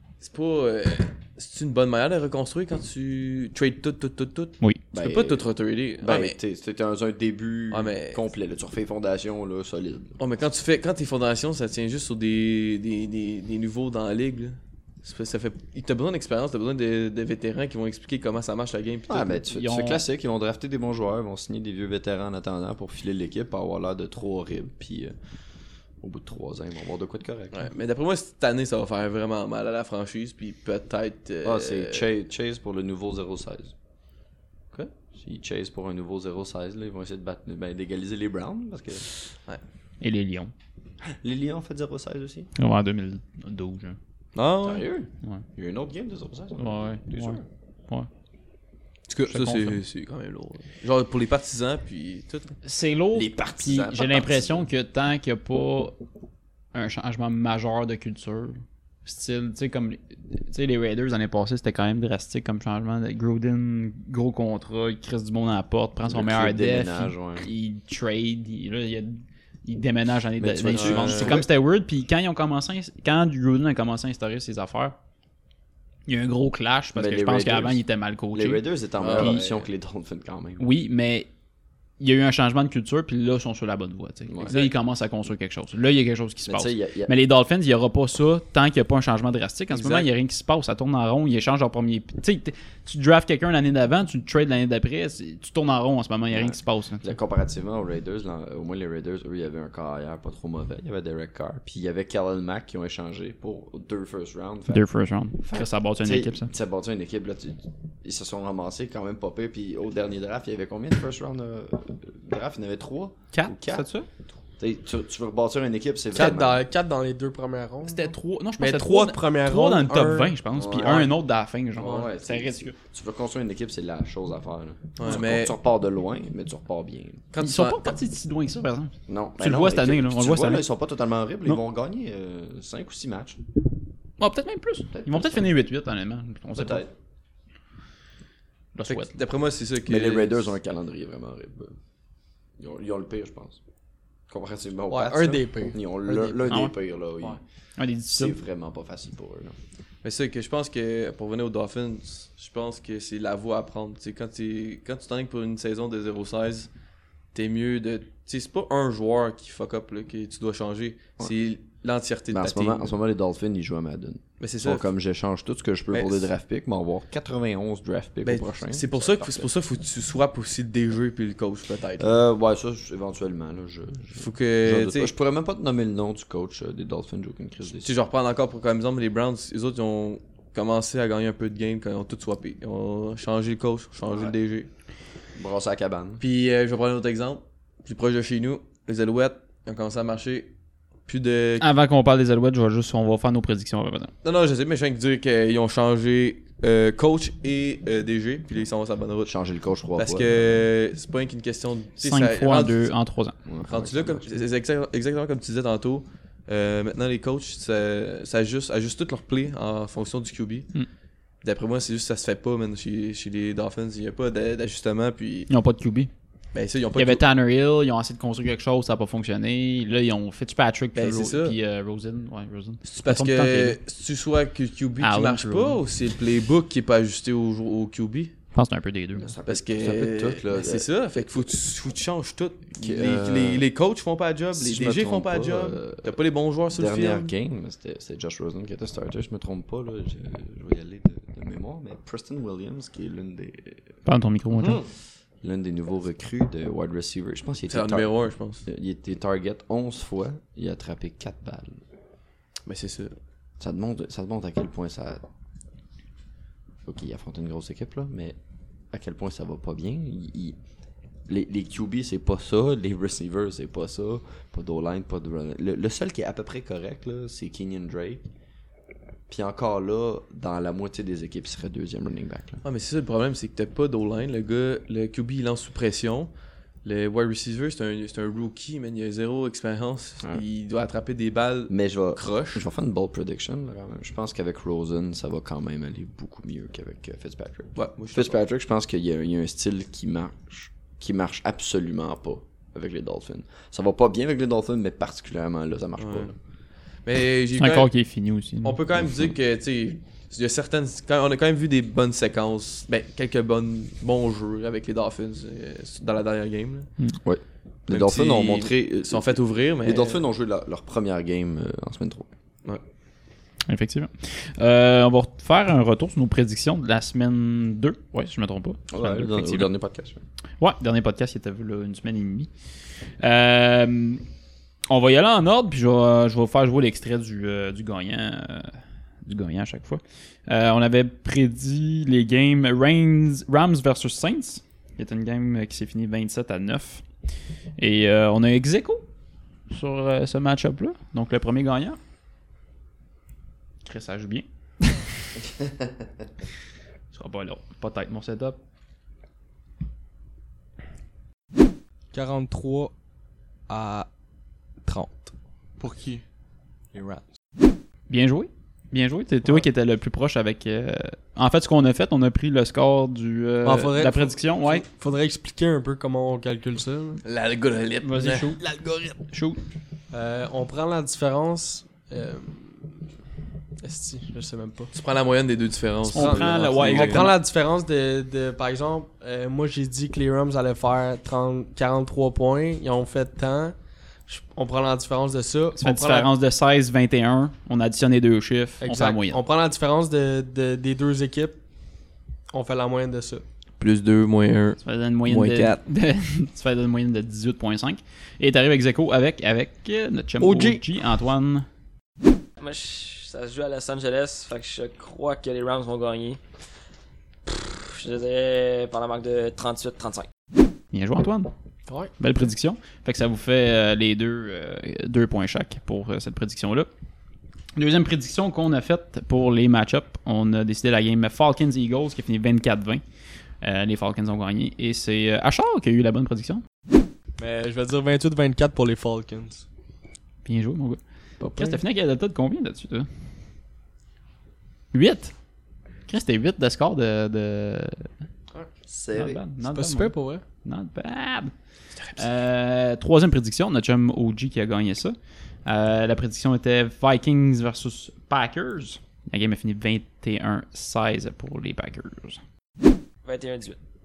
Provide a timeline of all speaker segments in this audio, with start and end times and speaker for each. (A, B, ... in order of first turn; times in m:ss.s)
0:00.2-0:06.4 A
0:04.9-0:05.5 B
0:06.0-0:10.2 B
0:07.7-0:08.2 A
0:10.2-0:19.3 A
0:19.1-0:25.1 B
0:19.4-0:20.0 C
0:26.0-0:27.7 B
0:27.5-0:32.1 A
0:31.4-0:33.7 B
0:34.7-0:39.1 B
0:40.0-0:40.5 C
0:41.2-0:42.5 B
0:42.6-0:44.0 C
0:44.3-0:44.9 A
0:44.6-0:47.4 B
0:46.6-0:48.1 C
0:49.1-0:52.5 A
0:49.3-0:49.8 C
0:52.6-0:56.0 C
0:53.1-0:54.7 B
0:56.7-1:15.0 C
1:06.1-1:07.5 B
1:10.4-1:11.5 B
1:10.7-1:11.4 A
1:16.1-1:18.6 C
1:16.9-1:20.7 B
1:19.0-1:19.4 A
1:19.2-1:19.4 C
1:20.6-1:21.3 C
1:22.0-1:37.1 C
1:24.3-1:24.6 B
1:26.4-1:27.1 B
1:29.7-1:30.1 A
1:36.3-1:44.9 B
1:44.7-1:46.5 C
1:45.4-1:53.9 B
1:53.3-1:54.1 C
1:54.6-1:56.6 B
1:56.1-2:00.4 D
1:57.8-2:02.8 C
2:00.5-2:01.1 B
2:01.8-2:07.2 B
2:05.0-2:05.5 A
2:07.3-2:08.0 A
2:07.4-2:10.6 C
2:09.1-2:13.4 B
2:14.2-2:16.8 C
2:14.9-2:15.5 B
2:16.5-2:16.9 B
2:18.7-2:19.1 C
2:18.9-2:20.5 A
2:19.8-2:21.8 B
2:22.6-2:23.6 B
2:24.3-2:27.4 B
2:24.9-2:26.6 D
2:26.5-2:28.4 C
2:28.1-2:29.5 B
2:30.0-2:36.7 A
2:37.3-2:42.9 A
2:42.3-2:49.5 B
2:44.4-2:44.8 A
2:45.9-2:46.3 A
2:48.2-2:52.2 A
2:52.0-2:58.0 B
2:54.2-2:55.1 A
2:57.7-3:04.7 A
3:04.1-3:04.3 B
3:05.3-3:06.2 B
3:06.2-3:10.5 A
3:11.0-3:11.7 A
3:11.6-3:14.1 C
3:14.2-3:19.3 A
3:19.2-3:20.6 B
3:20.0-3:22.9 A
3:22.0-3:23.3 C
3:23.4-3:24.4 B
3:23.7-3:30.7 A
3:31.4-3:35.5 A
3:35.5-3:36.1 C
3:36.5-3:37.2 A
3:36.9-3:43.8 C
3:40.9-3:41.6 A
3:42.8-3:48.3 A
3:45.0-3:45.8 C
3:48.5-3:49.3 C
3:49.2-3:51.2 B
3:49.5-3:57.3 A
3:52.8-3:53.6 B
3:54.5-3:56.2 B
3:56.7-4:03.8 B
4:04.0-4:04.8 C
4:04.6-4:04.8 B
4:05.4-4:08.1 B
4:07.7-4:08.6 A
4:08.6-4:11.8 B
4:12.6-4:13.1 A
4:13.6-4:15.2 B
4:16.8-4:18.4 B
4:18.9-4:20.6 B
4:21.3-4:28.2 B
4:29.3-4:32.6 B
4:32.6-4:36.3 A
4:36.8-4:42.6 A
4:41.7-4:56.3 B
4:47.8-4:48.4 A
4:56.0-4:56.3 A
4:57.0-4:57.9 A
4:57.6-4:58.8 C
4:58.6-5:06.9 A
5:07.2-5:12.3 B
5:07.9-5:10.2 A
5:13.7-5:19.7 C
5:18.9-5:20.2 B
5:20.6-5:22.5 C
5:23.2-5:24.2 C
5:24.9-5:37.0 C
5:37.8-5:39.0 C
5:39.7-5:42.0 C
5:43.8-5:45.0 C
5:47.1-5:48.6 C
5:52.1-5:52.9 D
5:53.7-5:54.1 D
5:54.8-5:56.2 D
5:56.9-5:57.2 D
5:58.1-6:04.8 C
6:03.6-6:07.2 D
6:07.2-6:08.5 A
6:08.0-6:08.6 C
6:08.6-6:09.2 D
6:09.3-6:09.6 C
6:10.1-6:13.0 D
6:13.8-6:14.9 D
6:14.9-6:17.3 A
6:16.1-6:23.8 D
6:16.1-6:17.4 C
6:24.3-6:26.3 D
6:25.8-6:29.4 C
6:28.8-6:31.6 D
6:32.5-6:33.4 D
6:33.8-6:35.8 A
6:34.8-6:41.6 C
6:40.4-6:40.8 D
6:42.6-6:46.4 E
6:47.4-6:50.3 E
6:50.9-6:51.5 C
6:52.2-6:56.9 C
6:57.8-7:03.0 C
7:03.6-7:06.6 C
7:07.4-7:09.6 D
7:10.4-7:11.0 C
7:11.4-7:11.8 B
7:11.5-7:13.1 C
7:14.9-7:15.3 C
7:16.1-7:18.1 C
7:18.9-7:19.4 B
7:19.1-7:21.5 C
7:19.6-7:20.4 D
7:22.2-7:32.4 C
7:33.2-7:33.8 E